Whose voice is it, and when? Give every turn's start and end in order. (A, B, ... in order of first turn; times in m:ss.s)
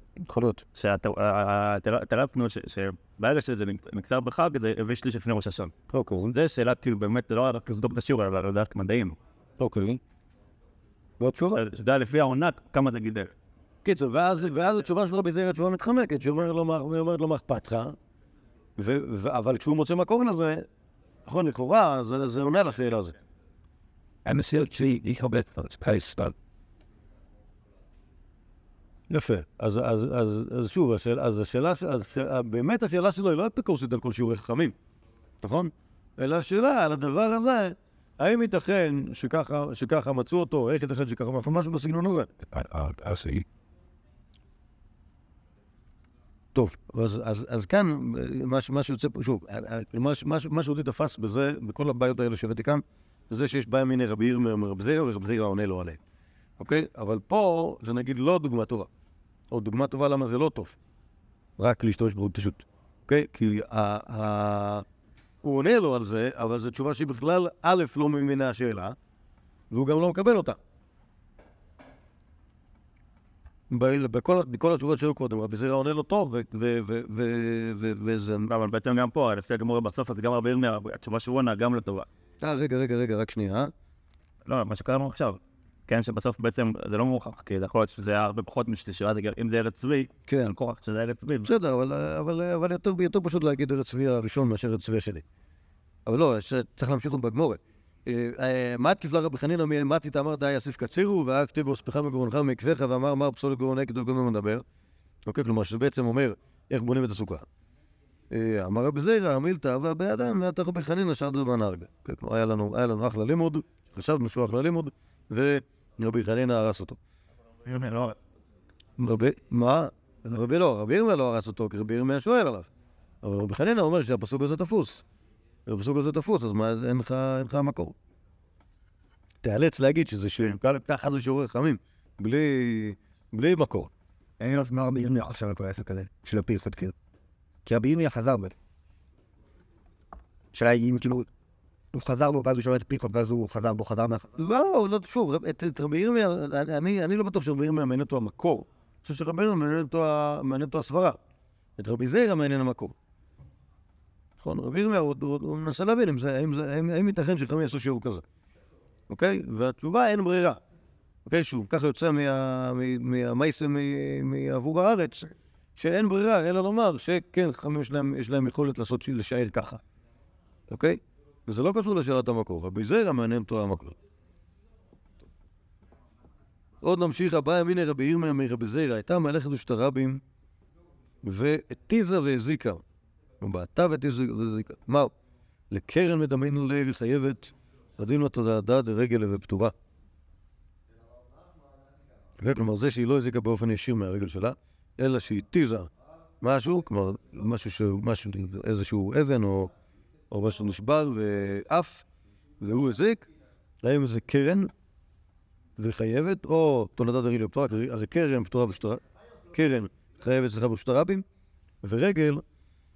0:00.3-0:00.6 A
0:00.7-0:05.7 B
0:05.9-0:06.3 A
0:06.2-0:09.2 B
0:09.6-0:10.0 A
0:11.2-0:11.6 A
0:11.5-0:13.3 B
0:13.8-0:18.0 A
0:18.8-0:20.7 A
0:21.2-0:23.2 A
0:24.2-0:26.3 C
0:29.1-0:34.7 A
0:35.4-0:43.4 A
0:46.5-0:56.0 A
0:56.6-0:58.9 A
0:59.5-1:00.8 A
1:01.6-1:04.8 A
1:05.4-1:09.0 A
1:09.7-1:10.6 A
1:13.7-1:18.4 A
1:18.4-1:22.1 B
1:22.4-1:23.7 A
1:24.4-1:31.5 B
1:30.3-1:30.5 A
1:31.4-1:35.2 A
1:36.0-1:44.6 A
1:45.2-1:47.4 A
1:48.3-1:57.0 A
1:57.6-1:58.2 B
1:59.0-2:02.7 A
2:03.2-2:05.0 A
2:05.6-2:07.9 A
2:09.4-2:13.9 A
2:14.4-2:16.9 C
2:17.6-2:18.5 C
2:20.5-2:21.3 C
2:21.9-2:24.3 C
2:24.4-2:31.2 A
2:31.8-2:32.9 A
2:34.4-2:38.2 A
2:39.1-2:40.6 A
2:41.2-2:49.8 A
2:50.7-2:54.0 A
2:56.8-3:00.2 A
3:01.2-3:02.8 A
3:03.4-3:05.1 A
3:05.7-3:09.7 A
3:12.4-3:15.9 A
3:16.4-3:19.7 A
3:20.3-3:22.0 A
3:22.6-3:23.2 A
3:23.8-3:24.7 A
3:25.8-3:29.0 A
3:29.5-3:31.2 A
3:31.8-3:32.4 A